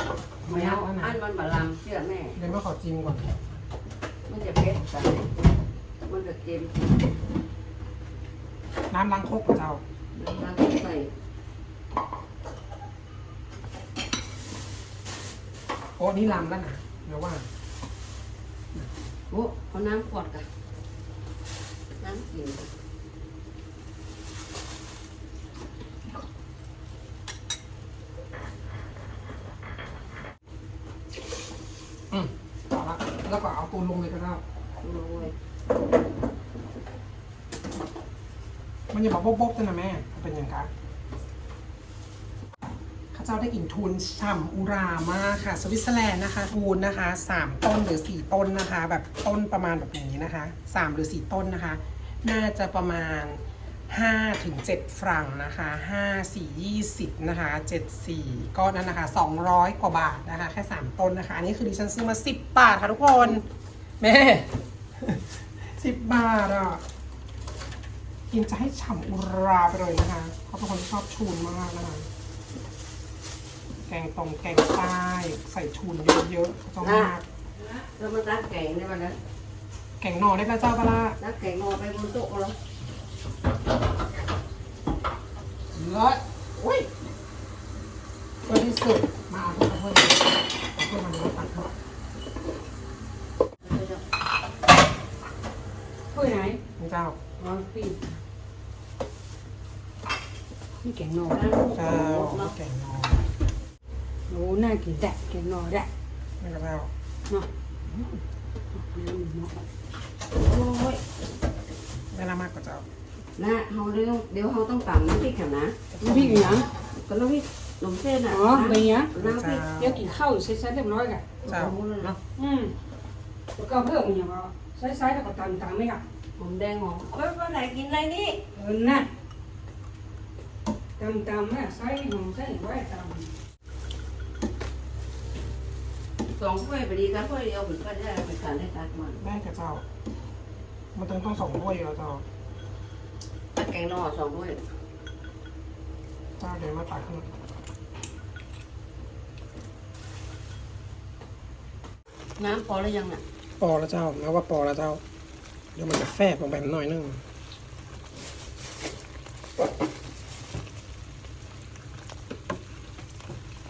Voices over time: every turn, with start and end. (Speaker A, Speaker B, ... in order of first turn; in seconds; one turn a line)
Speaker A: 0.4-1.2
Speaker B: 0.5-2.4
Speaker A: 2.4-3.3
Speaker B: 4.3-5.3
Speaker B: 6.1-6.9
Speaker A: 8.9-9.8
Speaker B: 10.1-11.1
Speaker A: 16.0-17.5
Speaker B: 19.3-20.5
Speaker B: 22.0-22.7
Speaker A: 32.1-34.4
Speaker B: 34.8-35.3
Speaker A: 38.9-40.7
Speaker A: 43.1-63.5
Speaker A: 64.0-66.8
Speaker A: 68.3-72.1
Speaker A: 73.9-77.2
Speaker B: 76.8-77.1
Speaker B: 77.8-79.2
Speaker A: 80.0-81.2
Speaker B: 81.2-82.6
Speaker A: 85.7-86.9
Speaker A: 88.5-91.7
Speaker B: 93.6-94.0
Speaker C: 96.1-96.6
Speaker A: 96.8-97.2
Speaker C: 97.4-98.2
Speaker C: 100.8-101.5
Speaker B: 101.3-102.5
Speaker A: 101.7-103.2
Speaker C: 104.3-105.9
Speaker A: 106.4-106.9
Speaker C: 108.8-109.5
Speaker B: 110.3-111.0
Speaker A: 112.1-112.9
Speaker B: 113.4-119.6
Speaker C: 116.0-116.7
Speaker C: 118.3-121.3
Speaker A: 119.2-120.1
Speaker B: 121.4-122.2
Speaker A: 121.5-122.2
Speaker C: 122.4-122.7
Speaker C: 123.6-126.0
Speaker B: 126.4-128.4
Speaker C: 128.6-129.1
Speaker C: 131.0-133.3
Speaker B: 136.4-139.2
Speaker A: 139.2-139.8
Speaker A: 140.9-142.2
Speaker B: 143.6-144.6
Speaker A: 146.4-147.3
Speaker B: 152.4-153.2
Speaker A: 153.6-155.0
Speaker A: 155.8-157.2